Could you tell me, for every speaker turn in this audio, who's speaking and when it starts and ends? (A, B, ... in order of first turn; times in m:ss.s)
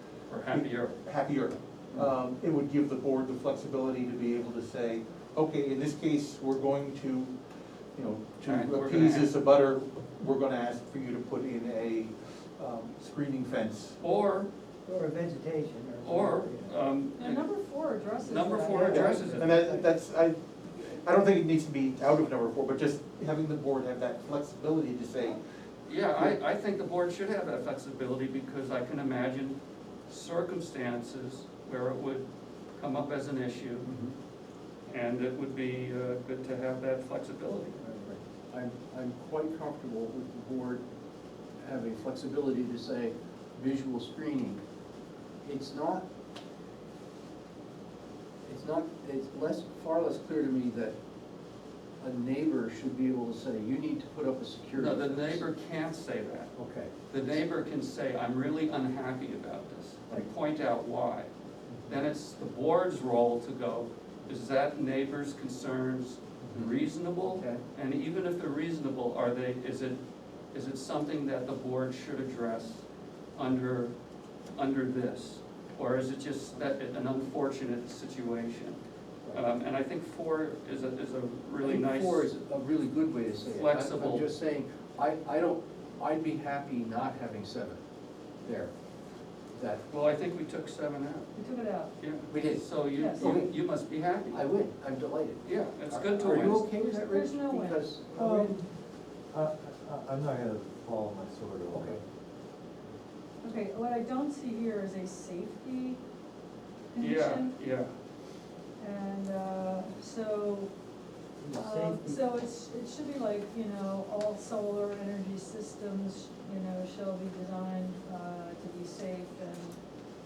0:00.3-0:01.0 A
0:00.5-0:07.3 B
0:08.0-0:14.0 B
0:08.5-0:09.3 A
0:14.0-0:14.5 A
0:14.9-0:16.8 C
0:16.0-0:17.5 A
0:17.2-0:19.5 D
0:18.1-0:19.5 A
0:18.9-0:25.4 B
0:18.9-0:19.9 C
0:25.9-0:32.3 A
0:32.8-0:33.9 A
0:33.8-0:34.2 E
0:34.9-0:37.8 A
0:37.8-0:40.8 E
0:41.6-0:44.6 E
0:45.4-0:46.1 E
0:48.4-0:51.0 E
0:52.0-0:55.4 E
0:54.7-0:56.5 A
0:56.6-0:57.4 E
0:57.1-1:01.3 A
1:01.7-1:02.0 E
1:01.9-1:10.0 A
1:06.4-1:07.6 E
1:10.5-1:12.8 A
1:13.4-1:13.9 A
1:14.6-1:18.8 A
1:19.3-1:22.3 A
1:21.6-1:27.8 E
1:23.5-1:24.3 A
1:28.4-1:28.7 E
1:29.5-1:29.8 E
1:29.9-1:31.3 A
1:31.3-1:32.0 D
1:32.0-1:34.5 A
1:32.3-1:33.6 E
1:32.9-1:33.3 D
1:34.3-1:38.6 E
1:35.4-1:36.7 A
1:36.7-1:37.9 D
1:38.2-1:38.6 F
1:39.3-1:42.0 F
1:41.7-1:42.0 E
1:43.4-1:46.0 D
1:46.9-1:47.6 D
1:47.0-1:47.9 A
1:48.8-1:50.7 D
1:51.4-1:52.2 C
1:51.5-1:59.8 D